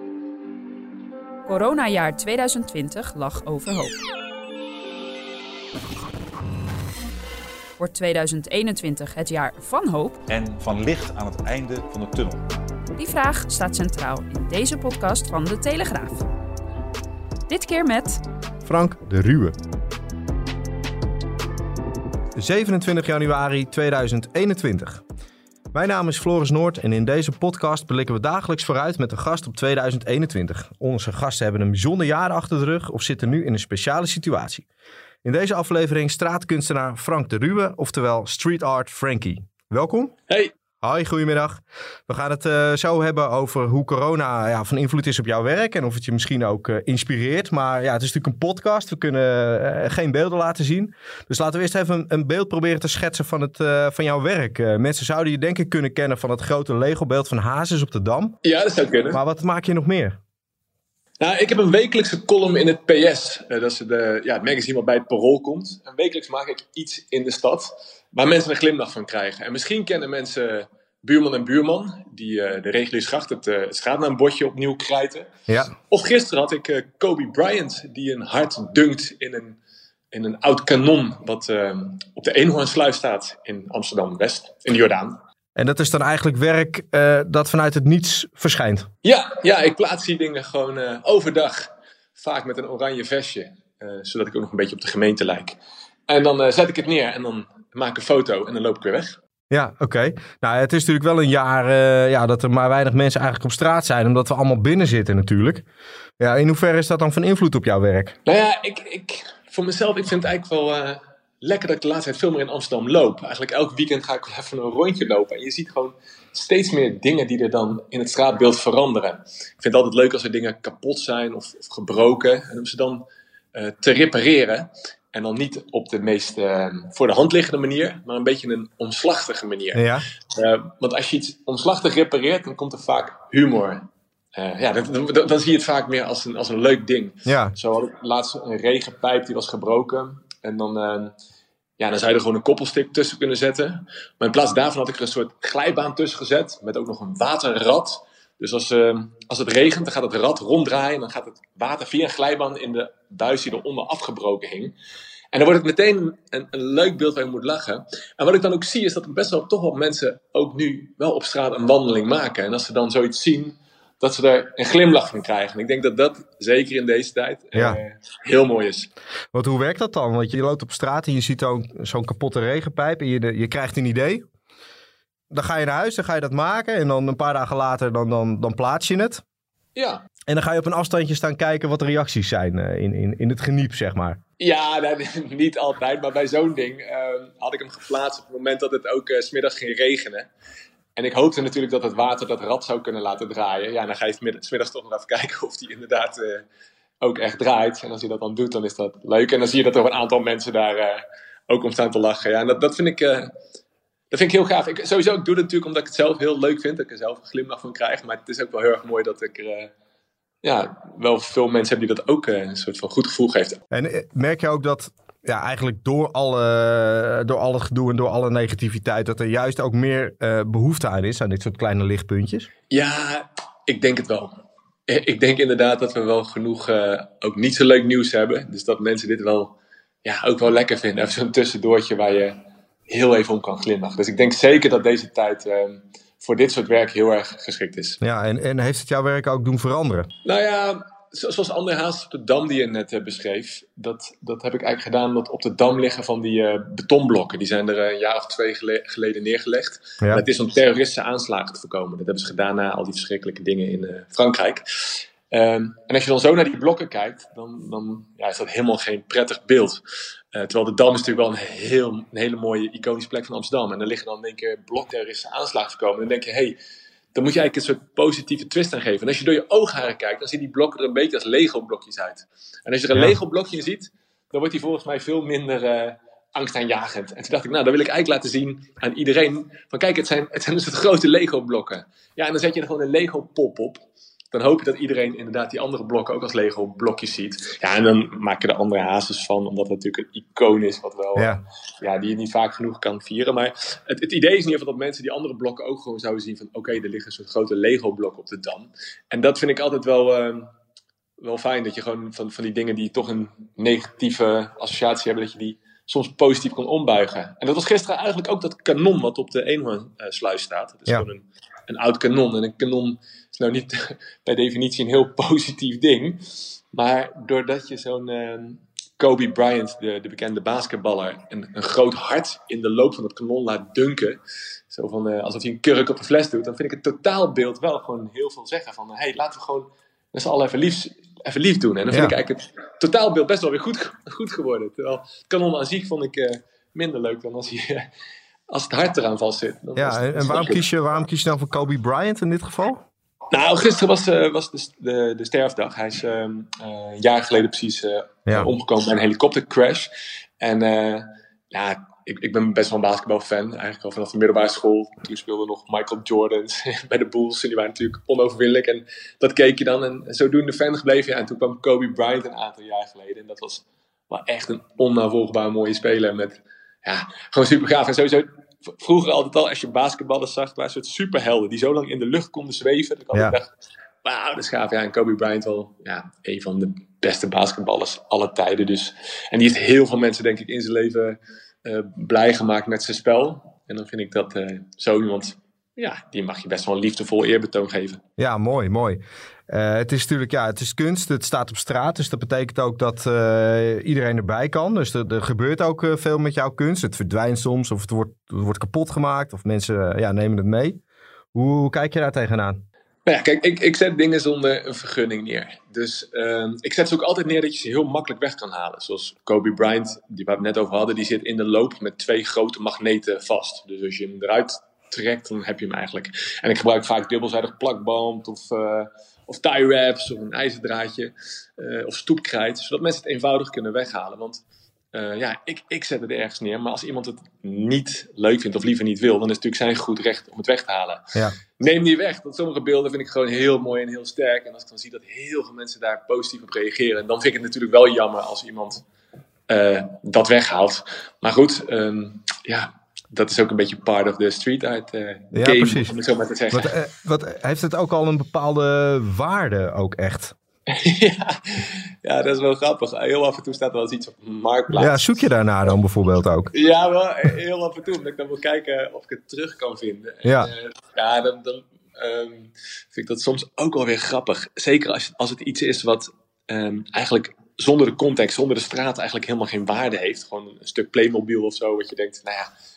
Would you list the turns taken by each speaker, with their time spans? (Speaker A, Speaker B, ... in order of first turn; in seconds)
Speaker A: 1.5-4.0, 7.8-10.2, 12.9-16.3, 17.5-18.2
Speaker B: 10.3-12.4
Speaker C: 18.6-19.5, 22.4-25.0, 25.7-34.6, 35.2-40.1, 40.8-58.4, 59.1-60.2, 75.5-75.7, 85.6-88.9, 99.5-105.7, 106.2-108.2, 129.7-130.1, 137.3-137.6, 167.6-167.8, 169.3-174.2, 175.3-179.2, 180.3-184.2, 213.7-222.5, 238.0-240.1, 291.2-291.4, 331.9-332.2, 339.8-342.8, 388.2-400.8, 401.3-402.6, 445.3-445.9, 446.5-450.4, 454.7-456.5, 460.2-460.5
Speaker D: 58.4-59.2, 61.2-79.6, 80.1-85.2, 89.0-99.2, 108.2-123.0, 123.5-133.8, 134.3-141.1, 141.8-154.8, 155.3-168.9, 179.8-180.0, 184.4-190.3, 191.0-196.4, 197.0-203.3, 204.1-209.7, 210.4-213.6, 222.7-224.3, 224.9-238.0, 240.2-259.8, 260.3-266.6, 267.1-300.5, 301.2-337.9, 338.5-340.6, 343.3-373.5, 374.0-388.0, 403.1-431.1, 431.6-438.8, 439.5-446.7, 450.7-455.1, 456.5-472.5